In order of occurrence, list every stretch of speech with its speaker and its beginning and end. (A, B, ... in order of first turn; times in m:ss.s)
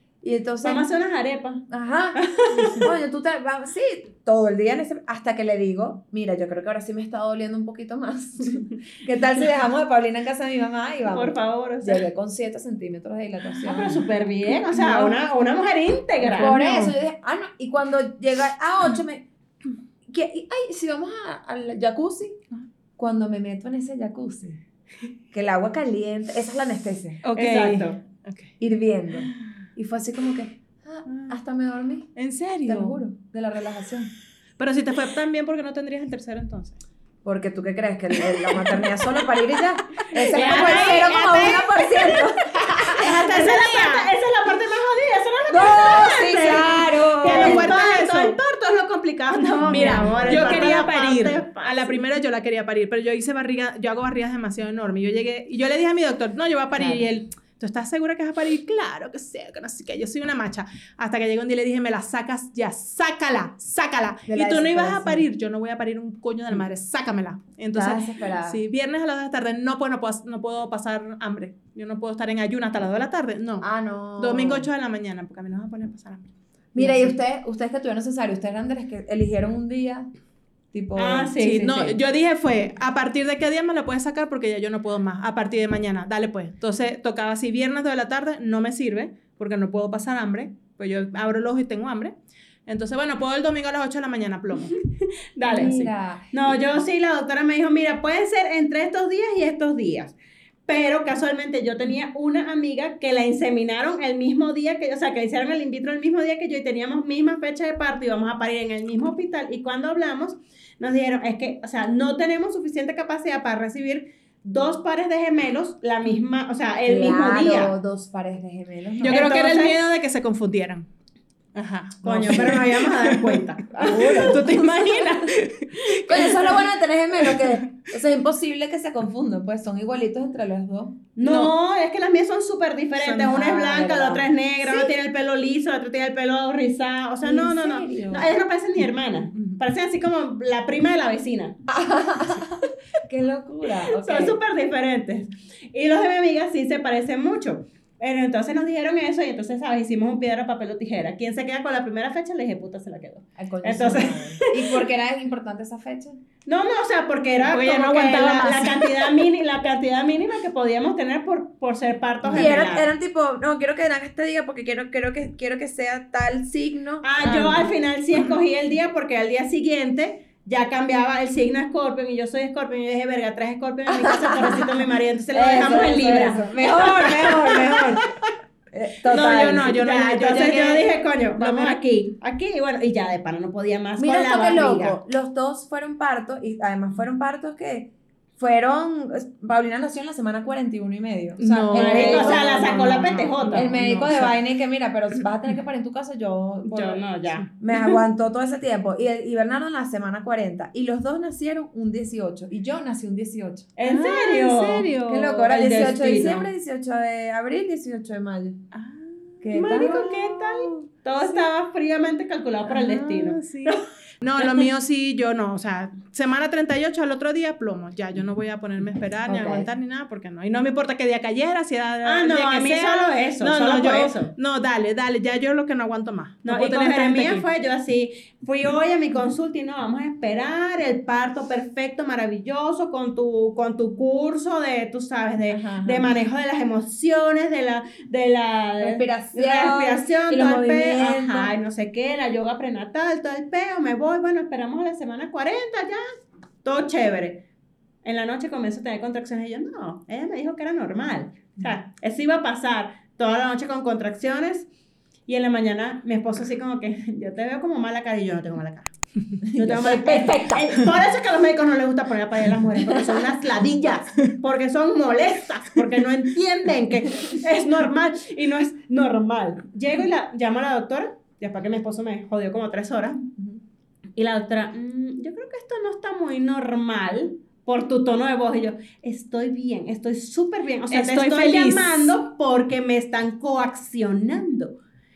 0:00.2-0:00.8 A
0:00.6-0:01.6 B
0:01.7-0:02.2 A
0:02.1-0:02.8 B
0:02.8-0:14.0 A
0:11.1-0:12.0 B
0:13.6-0:16.6 B
0:14.7-0:15.2 C
0:16.3-0:16.9 C
0:16.4-0:19.2 A
0:20.0-0:22.4 A
0:23.0-0:24.6 A
0:25.3-0:27.2 A
0:27.2-0:28.5 C
0:27.3-0:28.0 B
0:28.6-0:32.1 A
0:31.1-0:31.4 C
0:32.2-0:33.0 C
0:32.6-0:34.1 A
0:34.6-0:36.8 C
0:37.2-0:43.4 A
0:38.2-0:39.3 C
0:39.9-0:41.4 C
0:40.2-0:42.3 B
0:42.9-0:44.1 C
0:43.0-0:52.0 B
0:45.5-0:47.7 A
0:47.2-0:48.4 C
0:49.7-0:50.7 A
0:49.7-1:13.7 C
0:56.8-0:57.1 A
1:04.3-1:05.3 A
1:07.7-1:08.6 A
1:13.6-1:14.7 A
1:14.2-1:17.1 C
1:16.7-1:20.1 A
1:20.7-1:22.0 A
1:21.0-1:21.7 B
1:21.4-1:32.1 C
1:32.6-1:34.8 C
1:35.4-1:35.7 B
1:35.5-1:36.3 A
1:35.6-1:35.9 C
1:36.3-1:40.1 B
1:40.6-1:57.7 B
1:56.8-1:59.2 A
1:59.0-2:00.9 C
1:59.0-1:59.9 B
2:01.5-2:06.6 C
2:02.0-2:04.4 B
2:02.2-2:02.6 A
2:03.7-2:04.6 A
2:06.0-2:11.0 A
2:07.2-2:07.6 C
2:11.2-2:21.6 B
2:11.2-2:11.5 C
2:13.0-2:13.3 C
2:13.2-2:14.9 A
2:17.2-2:18.3 A
2:21.7-2:22.5 A
2:23.0-2:24.4 A
2:23.9-2:34.8 B
2:33.4-2:36.2 A
2:36.4-2:42.9 B
2:37.5-2:39.2 C
2:42.2-2:42.5 C
2:42.3-2:47.0 A
2:47.0-2:58.1 B
2:47.2-2:47.7 C
2:53.9-2:54.7 A
2:55.3-2:58.0 A
2:58.7-2:59.8 A
2:59.1-3:01.8 C
2:59.1-3:05.0 B
3:04.0-3:12.8 A
3:11.4-3:14.3 C
3:11.7-3:13.7 B
3:13.5-3:17.0 A
3:16.7-3:18.0 B
3:17.6-3:23.7 A
3:23.8-3:24.9 B
3:23.8-3:25.8 C
3:25.1-3:28.6 A
3:25.5-3:26.4 B
3:28.7-3:30.8 C
3:29.4-3:30.1 A
3:29.5-3:33.8 B
3:32.7-3:47.4 C
3:34.4-3:34.6 B
3:39.3-3:39.7 A
3:42.0-3:44.3 B
3:46.4-4:06.0 B
3:55.5-3:56.1 A
3:58.8-4:01.5 A
4:06.6-4:07.4 B
4:08.0-4:14.7 B
4:15.3-4:18.9 B
4:19.5-4:20.8 A
4:19.5-4:33.3 B
4:34.2-4:44.8 B
4:40.9-4:42.1 C